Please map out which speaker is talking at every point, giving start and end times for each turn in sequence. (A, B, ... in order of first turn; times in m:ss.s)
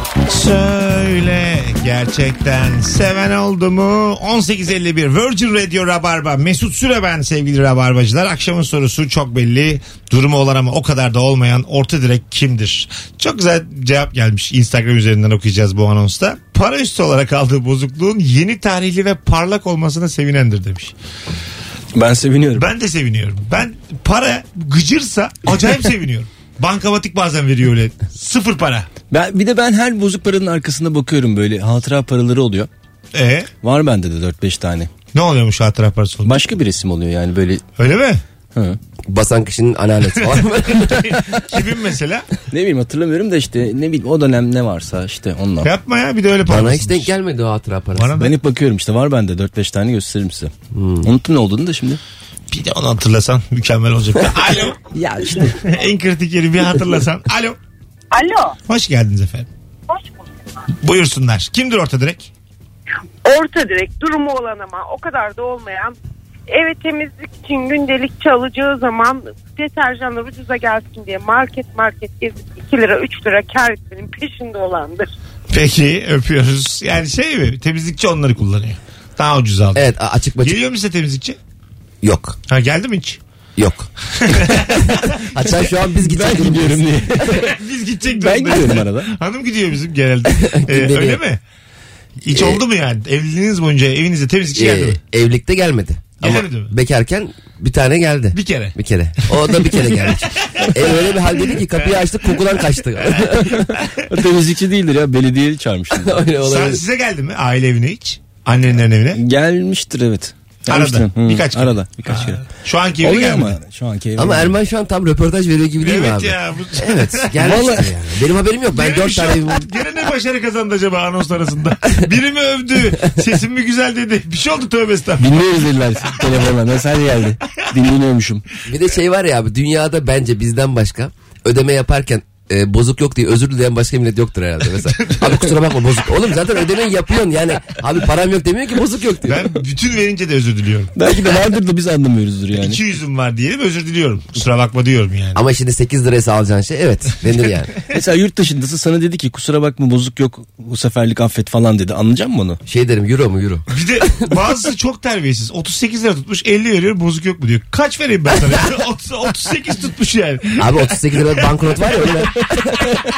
0:00.3-0:20.9 A
0:22.0-0:22.7 B
0:22.6-0:28.9 A
0:29.1-0:32.7 B
0:33.1-0:33.5 A
0:33.6-0:34.9 B
0:35.1-0:36.4 A
0:36.2-0:37.6 B
0:37.8-0:38.2 A
0:39.1-0:41.2 C
0:40.9-0:42.3 A
0:42.5-0:45.7 B
0:45.6-0:47.1 A
0:46.5-0:48.1 C
0:48.0-0:48.3 A
0:48.2-0:50.5 B
0:50.7-0:51.1 C
0:51.0-0:52.0 B
0:52.5-0:54.8 A
0:54.9-0:55.5 C
0:55.5-0:57.6 A
0:58.2-0:58.5 D
0:58.7-0:59.5 A
1:00.8-1:02.3 A
1:03.2-1:06.0 D
1:06.5-1:15.1 D
1:15.5-1:19.9 A
1:19.8-1:20.6 C
1:20.4-1:21.4 A
1:22.0-1:22.4 C
1:22.5-1:23.2 A
1:23.6-1:23.9 C
1:24.2-1:25.3 A
1:25.3-1:27.4 C
1:26.1-1:27.5 B
1:27.4-1:31.4 A
1:28.1-1:29.1 B
1:30.3-1:31.2 C
1:32.2-1:35.0 A
1:32.3-1:32.6 C
1:34.5-1:43.6 C
1:36.2-1:36.7 A
1:38.3-1:38.8 A
1:39.3-1:39.7 A
1:44.1-1:46.2 B
1:46.0-1:46.8 C
1:46.4-1:49.2 A
1:49.2-1:52.4 B
1:50.7-1:53.6 A
1:53.0-1:54.5 B
1:54.2-1:59.6 C
1:55.8-1:57.6 A
1:57.4-1:57.9 B
1:58.7-2:05.4 A
2:05.2-2:08.4 B
2:08.7-2:19.4 C
2:15.0-2:15.4 A
2:19.3-2:20.9 A
2:21.0-2:22.8 B
2:22.6-2:25.4 A
2:25.3-2:27.7 C
2:27.9-2:32.6 B
2:32.7-2:33.6 C
2:33.7-2:41.5 A
2:40.6-2:42.8 C